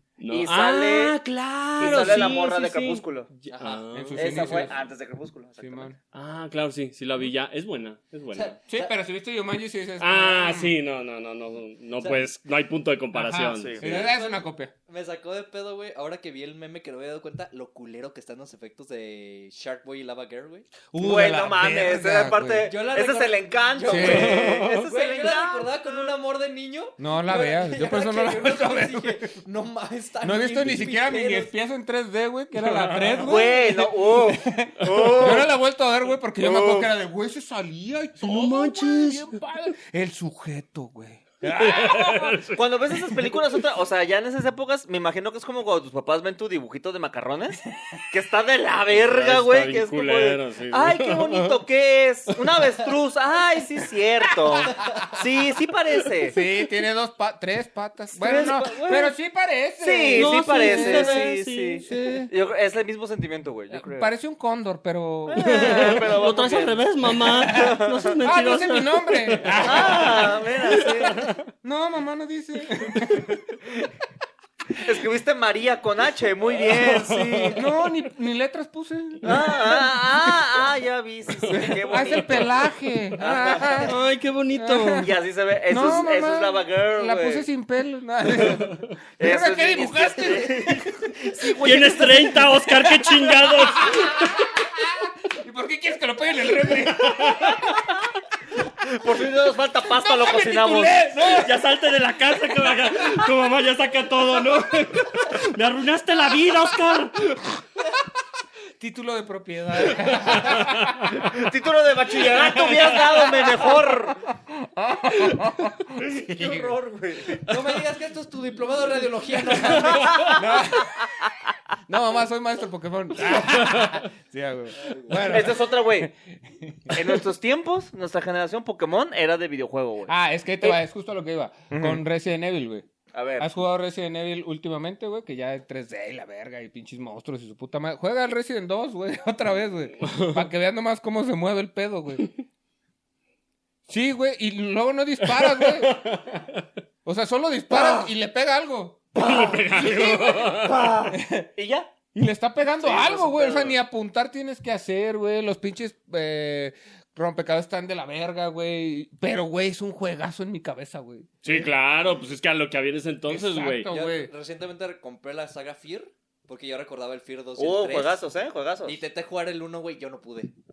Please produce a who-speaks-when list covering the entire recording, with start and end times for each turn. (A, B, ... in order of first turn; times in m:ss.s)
0:00.2-0:04.7 A
0:00.3-0:01.2 B
0:01.8-0:03.3 B
0:03.5-0:03.9 C
0:03.9-0:04.8 D
0:04.2-0:05.9 B
0:05.6-0:06.0 D
0:06.1-0:08.6 A
0:08.3-0:09.0 C
0:08.7-0:10.8 D
0:10.0-0:13.9 A
0:13.1-0:14.7 D
0:13.5-0:14.0 B
0:13.8-0:20.7 C
0:20.9-0:22.7 D
0:21.0-0:26.1 B
0:22.6-0:31.5 C
0:23.8-0:24.5 D
0:24.0-0:24.9 A
0:27.0-0:29.4 D
0:30.2-0:42.4 D
0:32.6-0:33.4 A
0:33.2-0:35.5 B
0:34.8-0:35.4 A
0:36.4-0:36.9 B
0:38.2-0:39.4 A
0:41.4-0:43.4 A
0:42.5-0:56.4 B
0:48.9-0:51.6 A
0:56.2-1:01.3 D
0:58.1-0:59.1 B
0:59.8-1:04.1 B
1:00.1-1:01.9 A
1:01.8-1:02.3 D
1:03.7-1:06.1 D
1:05.3-1:08.2 B
1:05.4-1:11.4 A
1:07.2-1:10.4 D
1:09.6-1:11.3 B
1:11.1-1:13.4 D
1:14.8-1:17.6 B
1:16.5-1:17.6 A
1:17.5-1:20.4 D
1:19.2-1:22.5 B
1:21.5-1:22.5 A
1:21.5-1:24.0 D
1:23.2-1:23.9 B
1:23.7-1:25.1 A
1:24.5-1:25.1 D
1:25.0-1:27.5 B
1:25.7-1:37.8 D
1:29.2-1:32.5 B
1:31.6-1:34.4 A
1:36.9-1:37.7 A
1:38.8-1:41.0 B
1:39.9-1:41.6 D
1:41.3-1:47.6 A
1:42.6-1:43.3 D
1:48.8-1:51.2 D
1:50.0-1:51.1 A
1:51.1-1:54.2 B
1:52.3-1:53.0 A
1:53.4-1:56.8 D
1:56.0-1:57.5 B
1:57.4-2:00.2 C
1:59.6-2:00.8 B
2:00.3-2:01.1 D
2:01.9-2:07.2 D
2:03.7-2:04.0 A
2:04.8-2:05.3 C
2:05.2-2:06.1 B
2:06.9-2:10.8 B
2:10.1-2:12.9 D
2:11.7-2:12.0 B
2:13.1-2:13.5 B
2:13.4-2:22.3 D
2:20.0-2:20.4 A
2:23.9-2:26.0 D
2:25.2-2:26.6 A
2:27.0-2:30.4 D
2:27.7-2:28.1 B
2:29.2-2:31.0 A
2:29.2-2:31.9 B
2:31.1-2:31.5 D
2:32.1-2:41.3 D
2:32.8-2:33.8 B
2:41.4-2:43.9 A
2:43.3-2:44.3 D
2:43.9-2:48.2 C
2:47.6-2:49.0 B
2:48.8-2:50.5 C